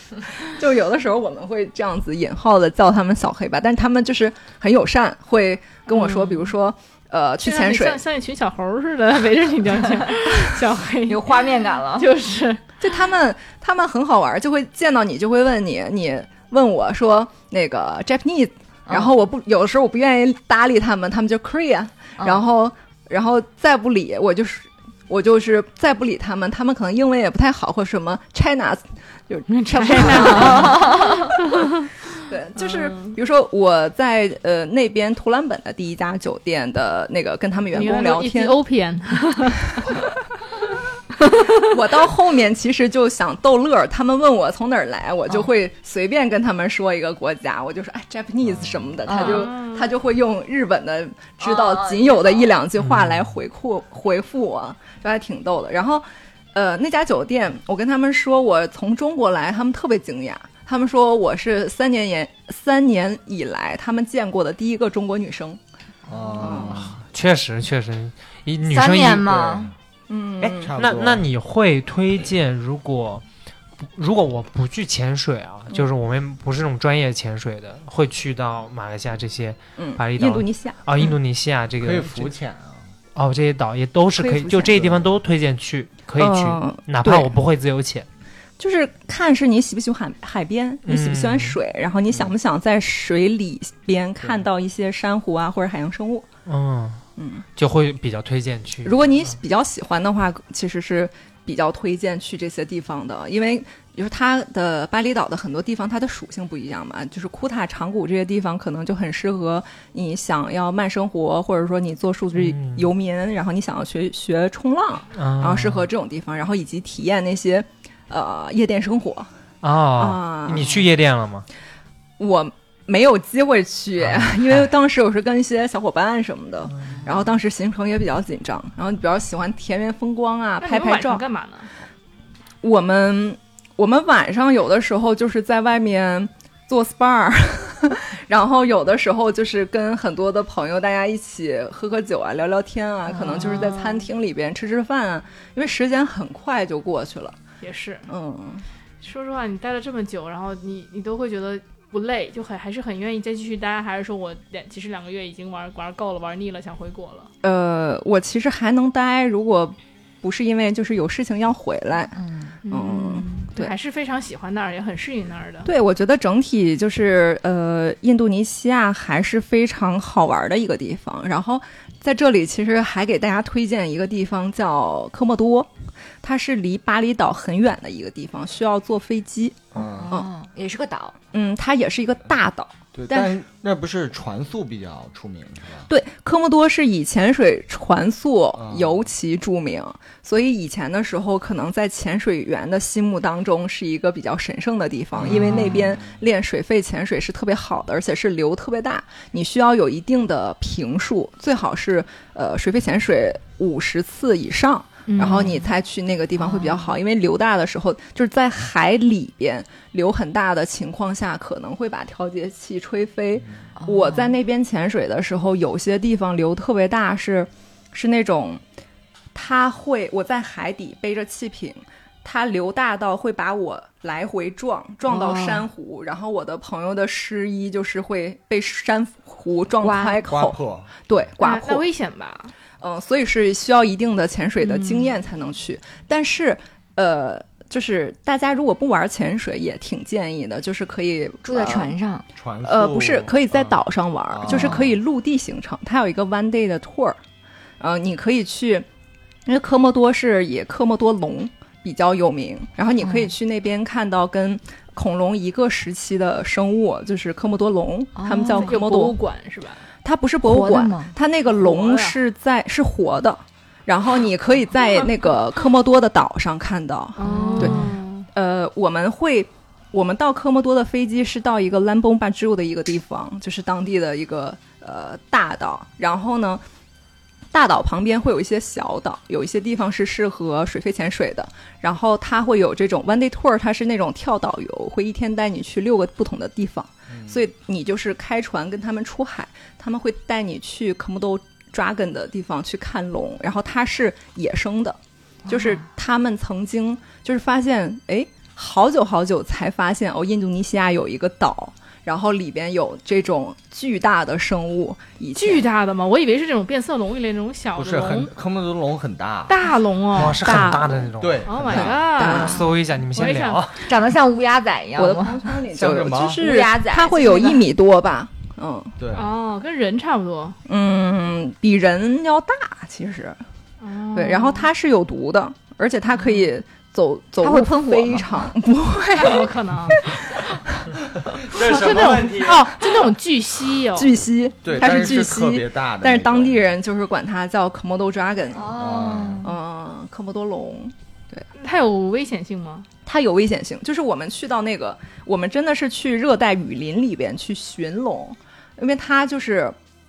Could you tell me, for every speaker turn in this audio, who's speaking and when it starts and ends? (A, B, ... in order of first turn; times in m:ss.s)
0:00.4-0:08.0 A
0:06.0-0:06.4 B
0:07.4-0:12.6 B
0:11.0-0:12.1 C
0:12.8-0:30.9 A
0:29.5-0:31.9 B
0:30.2-0:31.2 C
0:32.2-0:38.6 A
0:32.6-0:33.1 B
0:37.7-0:40.0 B
0:41.5-1:05.6 A
0:49.0-0:49.5 C
0:49.1-0:49.9 B
0:51.4-0:52.5 C
0:52.8-0:53.3 D
1:06.1-1:07.0 E
1:06.4-1:06.8 A
1:06.4-1:09.5 D
1:08.7-1:09.7 C
1:09.3-1:09.7 E
1:10.1-1:10.7 A
1:10.4-1:13.2 D
1:10.6-1:11.3 E
1:13.8-1:22.3 D
1:19.8-1:21.1 A
1:21.8-1:22.9 E
1:23.1-1:28.0 D
1:24.2-1:25.0 A
1:26.2-1:27.3 A
1:28.6-1:36.3 A
1:30.8-1:31.6 D
1:34.2-1:34.4 E
1:36.4-1:37.0 D
1:37.2-1:37.4 A
1:37.5-1:39.4 D
1:38.8-1:59.3 A
1:52.4-1:52.9 D
1:55.1-1:55.9 D
1:59.6-2:01.4 D
2:00.0-2:00.8 A
2:02.2-2:11.2 A
2:04.1-2:04.7 D
2:10.6-2:11.7 B
2:12.6-2:27.4 A
2:23.1-2:23.8 C
2:23.3-2:24.0 B
2:27.6-2:28.1 B
2:28.1-2:28.6 A
2:29.0-2:37.3 B
2:37.4-2:43.7 A
2:42.1-2:42.6 C
2:42.6-2:45.7 B
2:45.6-2:55.7 A
2:56.2-3:00.3 A
2:59.7-3:00.1 E
2:59.8-3:01.2 C
3:01.3-3:03.3 A
3:02.9-3:05.9 E
3:05.9-3:38.6 A
3:08.6-3:09.0 E
3:15.2-3:16.2 E
3:15.3-3:15.9 C
3:25.1-3:25.5 B
3:25.2-3:25.7 C
3:26.4-3:27.0 C
3:33.8-3:34.3 C
3:39.3-3:51.8 A
3:45.1-3:45.6 C
3:49.8-3:50.2 C
3:50.3-3:51.1 E
3:51.4-3:52.5 B
3:52.8-4:01.9 A
3:54.6-3:55.1 C
4:01.4-4:02.2 C
4:02.3-4:03.8 E
4:02.6-4:07.2 A
4:04.3-4:04.9 E
4:04.4-4:04.9 C
4:07.8-4:08.8 A
4:09.4-4:19.1 A
4:13.0-4:13.3 C
4:18.2-4:18.7 C
4:18.5-4:19.9 B
4:20.0-4:36.6 A
4:20.4-4:21.1 C
4:21.5-4:22.2 B
4:27.2-4:28.3 B
4:27.2-4:28.0 C
4:37.5-5:05.6 A
4:47.1-4:47.4 E
4:55.5-4:55.8 C
5:05.4-5:08.3 B
5:07.8-5:09.6 E
5:09.5-5:10.4 B
5:10.1-5:13.8 D
5:10.4-5:11.1 A
5:10.4-5:12.1 E
5:11.4-5:13.6 B
5:11.7-5:12.7 A
5:13.8-5:15.6 C
5:15.0-5:19.0 A
5:15.7-5:16.4 E
5:16.3-5:17.6 C
5:19.0-5:19.3 E
5:19.1-5:20.6 B
5:20.6-5:23.4 A
5:23.8-5:24.7 B
5:24.1-5:30.9 A
5:27.4-5:28.5 C
5:29.1-5:30.1 B
5:31.2-5:33.0 E
5:31.5-5:34.1 B
5:33.9-5:38.8 A
5:34.6-5:36.7 E
5:38.5-5:39.5 C
5:38.7-5:39.5 E
5:39.4-5:41.4 A
5:41.5-5:42.9 B
5:43.0-5:49.7 A